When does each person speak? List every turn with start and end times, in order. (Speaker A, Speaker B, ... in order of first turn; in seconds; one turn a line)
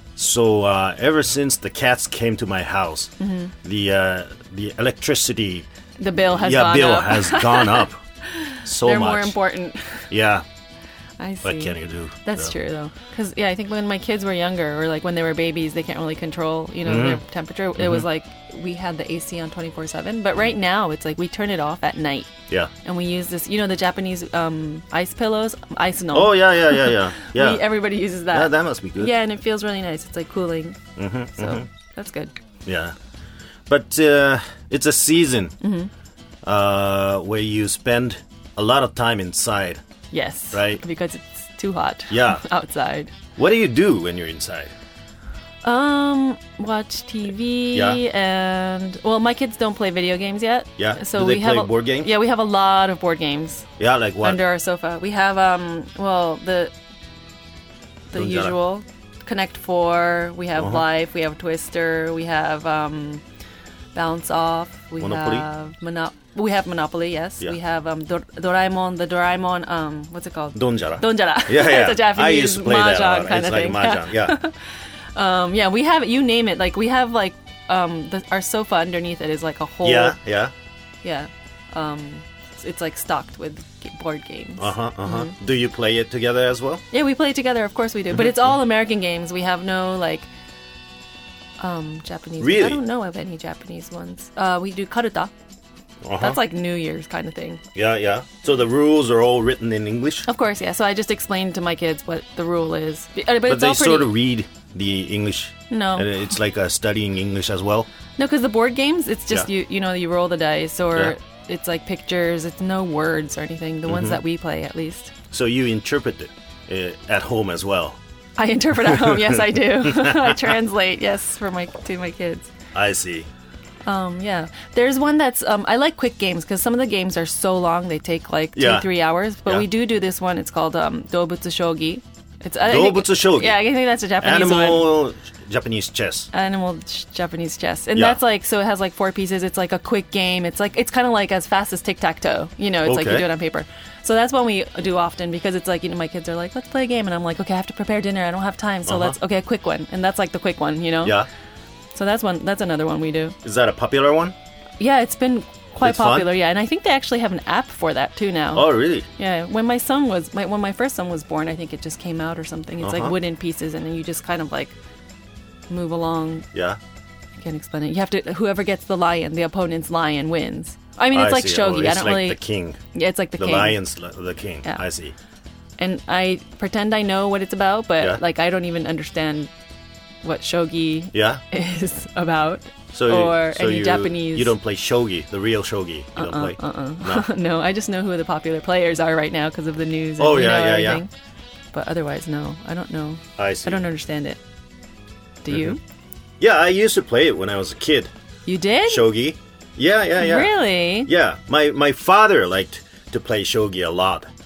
Speaker A: 0.2-5.7
Speaker B: 3.2-3.5
Speaker B: 6.0-10.1
Speaker A: 6.3-8.0
Speaker A: 8.6-9.4
Speaker A: 10.1-10.4
Speaker B: 11.2-22.3
Speaker A: 11.4-12.6
Speaker A: 16.9-17.2
Speaker A: 17.8-18.1
Speaker B: 22.8-30.8
Speaker A: 26.1-27.7
Speaker A: 28.3-29.1
Speaker A: 31.0-31.7
Speaker B: 31.4-32.3
Speaker A: 32.7-33.0
Speaker A: 33.7-35.5
Speaker B: 35.6-35.9
Speaker A: 36.4-39.8
Speaker B: 40.1-43.1
Speaker A: 40.5-40.8
Speaker A: 42.1-42.4
Speaker A: 43.4-44.7
Speaker B: 45.6-53.7
Speaker A: 47.7-48.0
Speaker A: 50.8-52.1
Speaker A: 53.8-54.4
Speaker B: 54.2-56.7
Speaker B: 58.1-63.2
Speaker A: 58.1-58.5
Speaker A: 60.6-60.8
Speaker B: 64.0-80.2
Speaker A: 65.0-65.5
Speaker A: 70.5-74.4
Speaker A: 79.8-80.5
Speaker B: 81.0-85.3
Speaker A: 84.6-86.8
Speaker B: 86.9-90.3
Speaker A: 88.1-88.5
Speaker B: 91.6-95.3
Speaker A: 92.4-92.8
Speaker A: 96.0-96.4
Speaker B: 96.2-97.6
Speaker A: 97.8-100.3
Speaker B: 100.3-104.1
Speaker A: 103.5-107.9
Speaker B: 105.7-106.1
Speaker B: 108.2-115.1
Speaker A: 113.9-114.2
Speaker A: 115.3-118.0
Speaker B: 118.4-122.5
Speaker A: 118.9-120.6
Speaker A: 122.7-123.3
Speaker B: 123.8-134.9
Speaker A: 128.6-128.9
Speaker A: 132.6-133.6
Speaker A: 134.2-136.3
Speaker B: 136.3-151.2
Speaker A: 142.8-143.3
Speaker A: 148.9-149.2
Speaker A: 151.0-151.3
Speaker B: 151.9-153.4
Speaker A: 153.4-154.3
Speaker B: 154.8-164.8
Speaker A: 155.8-156.3
Speaker A: 158.5-159.1
Speaker A: 162.8-163.2
Speaker B: 165.7-166.5
Speaker A: 166.5-166.8
Speaker B: 167.4-172.4
Speaker A: 171.1-172.8
Speaker B: 172.9-173.8
Speaker A: 173.4-175.2
Speaker B: 175.8-179.5
Speaker B: 180.2-184.5
Speaker A: 181.1-181.4
Speaker A: 182.9-187.3
Speaker B: 186.2-191.1
Speaker A: 190.2-191.0
Speaker B: 191.7-194.4
Speaker A: 193.4-193.8
Speaker B: 195.4-195.8
Speaker A: 195.5-195.8
Speaker A: 196.4-198.1
Speaker B: 198.5-199.1
Speaker A: 198.9-204.3
Speaker B: 200.2-201.1